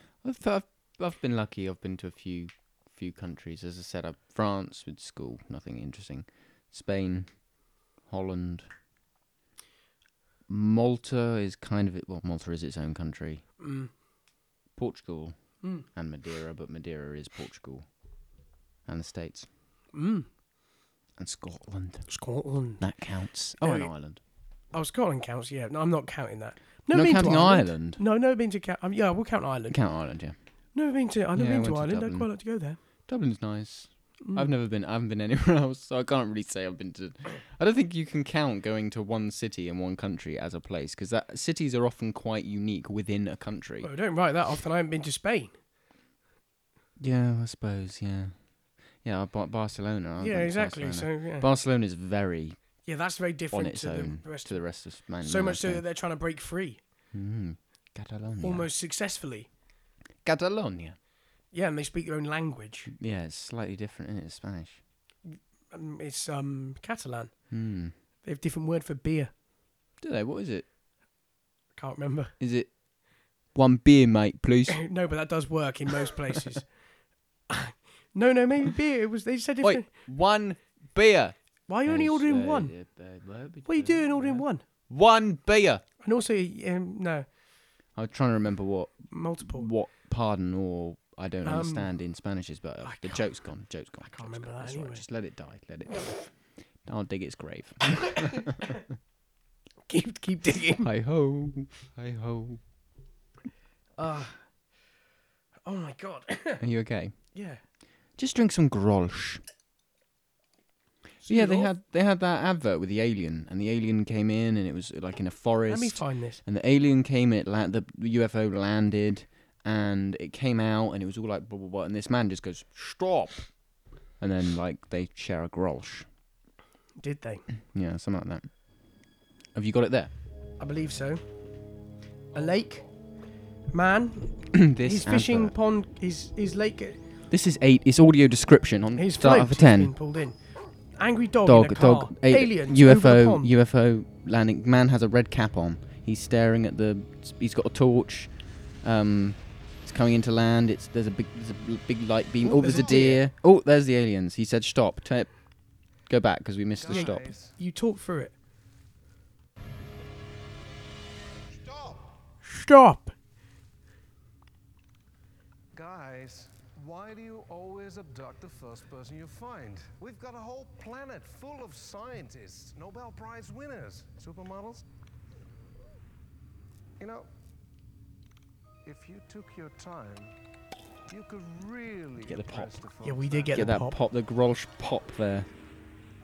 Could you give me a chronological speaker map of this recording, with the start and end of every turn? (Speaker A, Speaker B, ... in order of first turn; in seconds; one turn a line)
Speaker A: 0.2-7.3
Speaker A: 8.1-8.7
Speaker A: 10.5-13.4
Speaker B: 13.6-13.9
Speaker A: 14.8-15.3
Speaker A: 15.9-17.9
Speaker A: 18.9-19.5
Speaker B: 19.9-20.3
Speaker A: 21.2-22.1
Speaker B: 22.1-22.8
Speaker A: 22.8-24.2
Speaker B: 23.6-23.9
Speaker B: 24.7-29.8
Speaker A: 26.9-28.0
Speaker A: 29.7-30.4
Speaker B: 30.7-32.8
Speaker A: 31.3-32.3
Speaker A: 33.1-43.9
Speaker B: 34.2-34.5
Speaker B: 43.8-45.5
Speaker A: 47.0-48.3
Speaker A: 49.0-52.6
Speaker B: 50.2-51.5
Speaker B: 52.8-54.6
Speaker A: 53.5-55.8
Speaker B: 55.2-56.8
Speaker A: 57.1-58.7
Speaker B: 58.4-59.5
Speaker A: 60.2-61.0
Speaker B: 61.5-62.9
Speaker A: 62.9-64.8
Speaker B: 65.3-67.3
Speaker A: 67.5-67.9
Speaker B: 68.2-69.3
Speaker A: 70.0-70.7
Speaker B: 71.8-72.3
Speaker A: 72.4-72.7
Speaker A: 73.5-74.8
Speaker B: 74.7-76.7
Speaker B: 77.5-79.9
Speaker A: 79.6-85.8
Speaker B: 81.7-82.7
Speaker B: 83.7-84.6
Speaker B: 86.0-87.2
Speaker A: 88.0-98.8
Speaker B: 89.1-89.7
Speaker B: 91.4-91.9
Speaker B: 92.8-93.2
Speaker B: 94.0-95.0
Speaker B: 99.9-100.9
Speaker A: 100.8-102.6
Speaker B: 104.0-104.4
Speaker B: 105.6-106.6
Speaker A: 106.6-107.2
Speaker B: 107.3-107.6
Speaker A: 108.2-109.4
Speaker B: 111.2-111.7
Speaker A: 111.3-123.4
Speaker B: 115.7-116.4
Speaker A: 124.2-126.1
Speaker B: 127.0-127.5
Speaker A: 127.7-128.5
Speaker A: 129.5-130.1
Speaker B: 130.6-131.2
Speaker B: 132.3-132.9
Speaker B: 133.7-137.0
Speaker A: 134.5-135.5
Speaker A: 137.3-139.9
Speaker B: 138.9-140.3
Speaker B: 141.0-143.5
Speaker A: 141.4-155.3
Speaker B: 152.4-153.2
Speaker C: 152.7-153.0
Speaker A: 156.1-157.3
Speaker C: 156.8-157.6
Speaker B: 156.9-158.3
Speaker C: 161.7-162.0
Speaker B: 162.4-163.1
Speaker C: 165.7-174.8
Speaker C: 177.0-177.3
Speaker C: 178.8-180.3
Speaker C: 181.1-183.7
Speaker A: 182.2-182.7
Speaker B: 183.0-184.0
Speaker A: 183.5-185.5